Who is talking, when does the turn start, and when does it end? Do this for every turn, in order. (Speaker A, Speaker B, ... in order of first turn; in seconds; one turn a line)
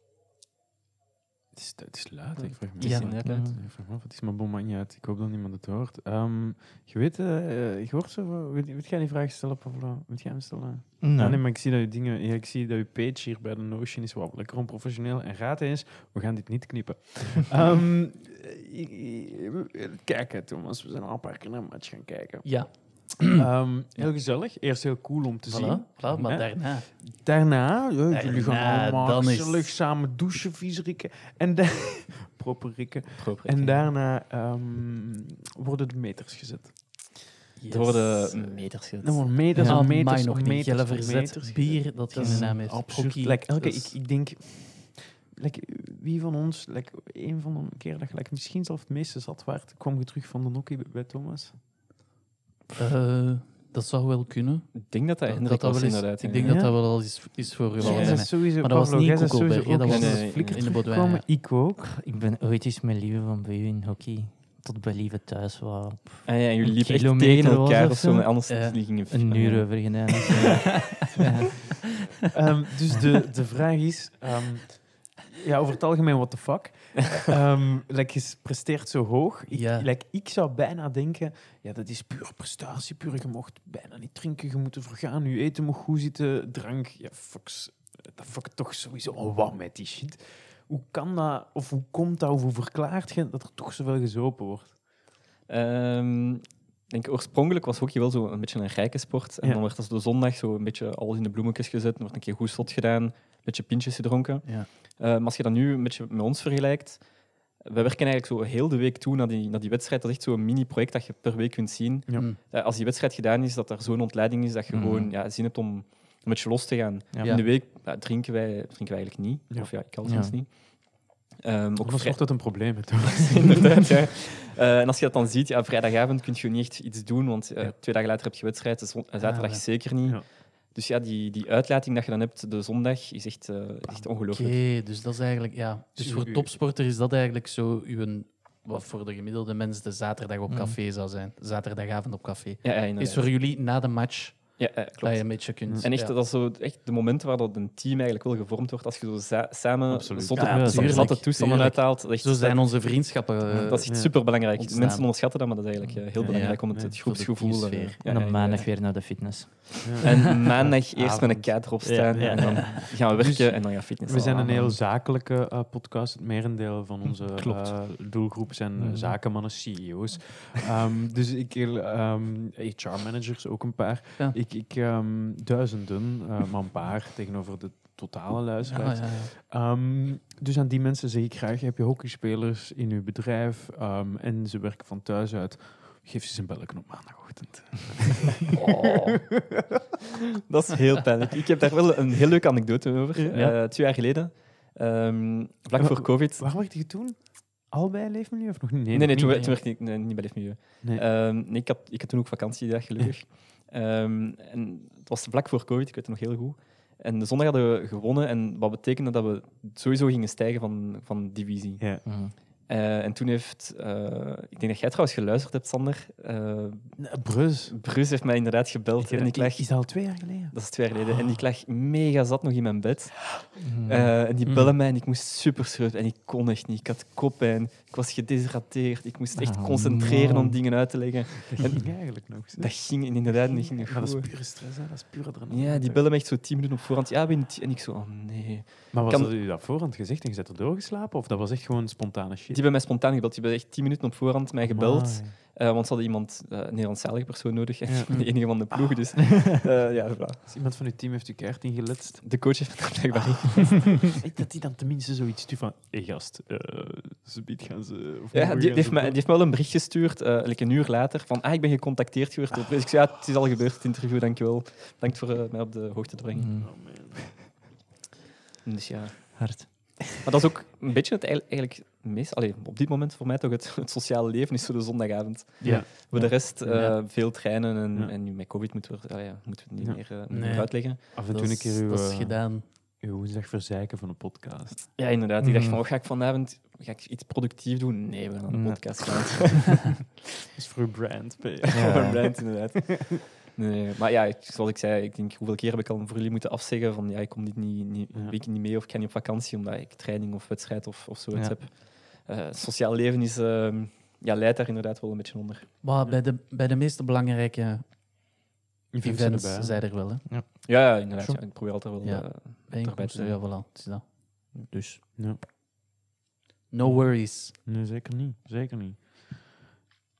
Speaker A: 1.5-22.8
Speaker B: 2.4-3.5
Speaker C: 2.8-3.2
Speaker D: 3.1-3.6
Speaker D: 11.0-11.4
Speaker C: 22.4-24.1
Speaker A: 23.3-37.2
Speaker C: 25.5-27.2
Speaker C: 28.1-29.8
Speaker B: 33.2-33.9
Speaker C: 37.6-38.7
Speaker B: 37.7-39.3
Speaker A: 39.0-51.5
Speaker D: 39.5-39.8
Speaker C: 39.6-43.8
Speaker D: 42.2-42.6
Speaker C: 52.8-61.3
Speaker B: 54.7-56.8
Speaker A: 56.4-56.8
Speaker A: 57.8-61.9
Speaker B: 57.8-58.3
Speaker B: 59.9-60.7
Speaker D: 61.8-68.3
Speaker B: 66.2-70.7
Speaker C: 68.5-68.8
Speaker D: 69.1-71.5
Speaker C: 70.4-71.3
Speaker A: 71.2-71.5
Speaker A: 72.3-94.8
Speaker C: 79.5-79.9
Speaker B: 95.5-134.6
Speaker D: 114.7-115.1
Speaker D: 117.1-117.4
Speaker D: 120.0-120.4
Speaker A: 121.8-123.7
Speaker C: 129.2-129.7
Speaker C: 134.3-146.2
Speaker A: 136.0-136.5
Speaker D: 140.5-140.8
Speaker B: 142.6-143.3
Speaker B: 144.6-158.7
Speaker A: 149.9-151.1
Speaker C: 150.3-155.4
Speaker D: 150.5-151.2
Speaker A: 153.9-154.2
Speaker A: 156.2-156.9
Speaker C: 156.2-157.9
Speaker D: 158.0-160.6
Speaker A: 159.8-189.7
Speaker B: 160.0-164.5
Speaker D: 161.8-162.8
Speaker C: 162.5-162.8
Speaker D: 164.3-164.8
Speaker D: 167.3-168.0
Speaker D: 168.8-169.2
Speaker C: 178.6-179.3
Speaker B: 188.5-189.4
Speaker B: 190.4-196.5
Speaker A: 195.8-199.5
Speaker B: 198.9-217.2
Speaker C: 199.2-199.6
Speaker D: 212.0-212.3
Speaker A: 217.0-217.8
Speaker B: 217.7-234.4
Speaker A: 219.0-220.6
Speaker D: 223.6-224.1
Speaker C: 224.4-224.7
Speaker D: 229.4-230.6
Speaker A: 231.7-236.0
Speaker B: 235.5-239.3
Speaker A: 238.9-242.6
Speaker B: 242.5-250.4
Speaker A: 244.6-245.3
Speaker A: 247.9-248.7
Speaker A: 250.1-252.3
Speaker B: 252.2-254.1
Speaker A: 254.1-259.2
Speaker B: 258.3-266.6
Speaker D: 266.3-267.3
Speaker A: 266.6-267.3
Speaker B: 268.6-281.0
Speaker D: 269.3-270.2
Speaker C: 275.6-275.9
Speaker A: 275.6-277.4
Speaker C: 276.6-277.0
Speaker A: 279.8-280.5
Speaker C: 280.3-282.6
Speaker A: 281.1-284.9
Speaker B: 284.9-290.1
Speaker D: 285.4-285.8
Speaker D: 288.5-289.6
Speaker A: 290.5-292.5
Speaker B: 291.7-305.7
Speaker D: 291.7-292.4
Speaker A: 298.1-298.4
Speaker C: 305.8-308.5
Speaker A: 308.9-309.8
Speaker C: 309.0-310.2
Speaker B: 310.6-313.6
Speaker C: 312.0-315.0
Speaker C: 316.7-317.5
Speaker A: 316.8-319.1